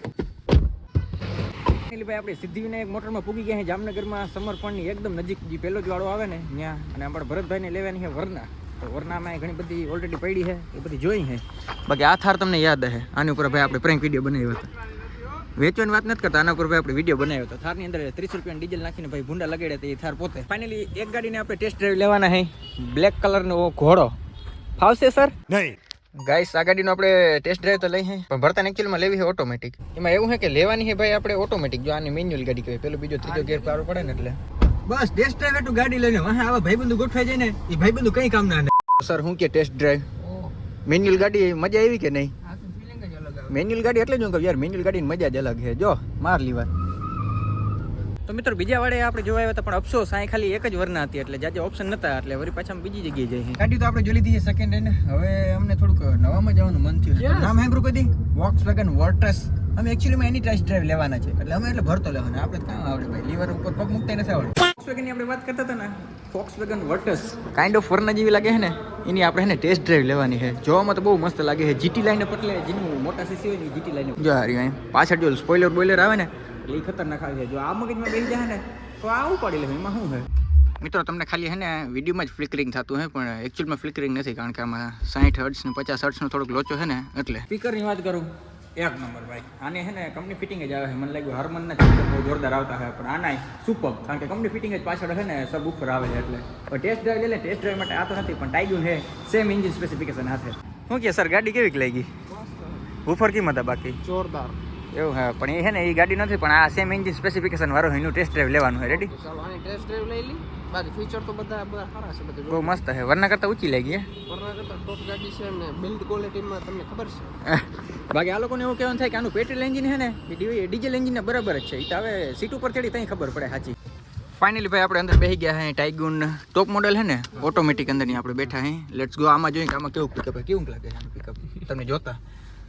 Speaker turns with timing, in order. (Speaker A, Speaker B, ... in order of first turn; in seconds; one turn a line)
Speaker A: 1.9-14.7
Speaker A: 15.5-24.1
Speaker A: 24.8-40.1
Speaker B: 33.2-34.2
Speaker B: 40.2-40.5
Speaker A: 40.9-42.3
Speaker B: 42.4-43.5
Speaker A: 43.5-46.7
Speaker A: 48.2-80.3
Speaker B: 57.2-57.6
Speaker A: 80.8-102.1
Speaker B: 102.3-102.9
Speaker A: 103.0-104.0
Speaker B: 104.0-104.6
Speaker A: 104.9-109.1
Speaker B: 108.8-112.8
Speaker A: 112.5-114.1
Speaker B: 114.2-117.3
Speaker A: 117.4-123.8
Speaker A: 124.3-132.2